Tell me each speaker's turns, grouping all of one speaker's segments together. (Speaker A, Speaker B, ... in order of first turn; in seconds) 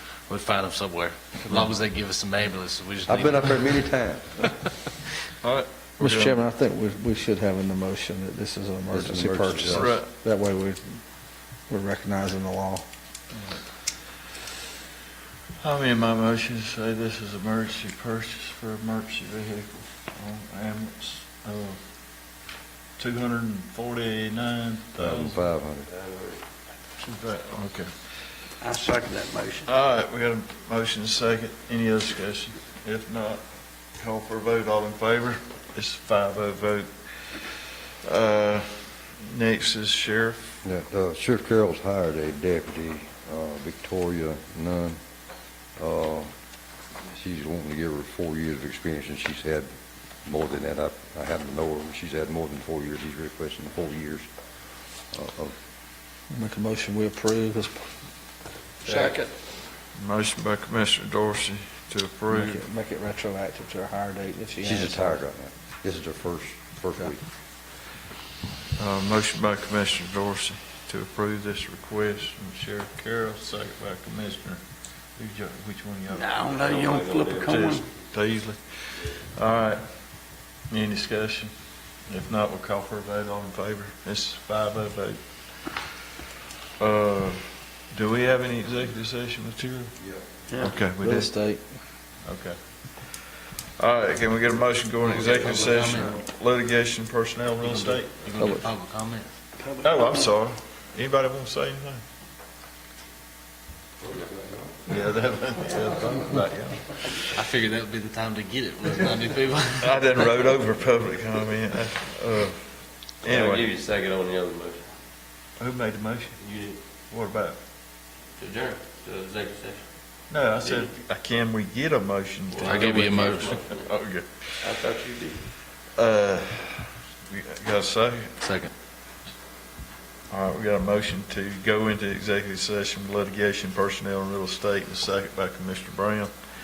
Speaker A: 0.3-3.8, 95.0-96.2, 97.6-99.3, 107.3-110.5, 122.6-123.6, 128.4-128.7
Speaker B: 3.1-4.3, 8.9-9.9, 25.0-25.9, 40.6-45.0, 45.8-46.3, 47.0-49.7, 50.2-54.3, 55.1-55.5, 64.6-67.2
Speaker C: 5.4-6.4, 9.7-10.1, 13.3-13.6, 15.6-21.8, 23.0-25.4, 27.0-28.2, 29.6-40.5, 60.0-62.6, 68.8-74.6, 75.2-76.6, 77.5-79.9, 80.7-81.5, 82.1-85.2, 86.8-90.0, 90.6-91.3, 92.2-93.2, 93.8-98.6, 99.8-102.0, 104.8-107.4, 109.8-113.7, 115.6-116.4, 117.1-117.6, 120.3-124.7, 126.0-128.3, 130.3-136.4
Speaker D: 6.0-12.9, 56.3-57.9, 58.8-59.3, 62.3-65.2, 91.0-91.6
Speaker E: 26.1-26.3, 76.6-77.7, 113.3-114.8, 116.5-116.8, 118.4-119.8, 122.5-123.8, 124.8-125.2
Speaker F: 28.6-29.7, 76.1-77.9, 90.5-90.8, 99.6-100.2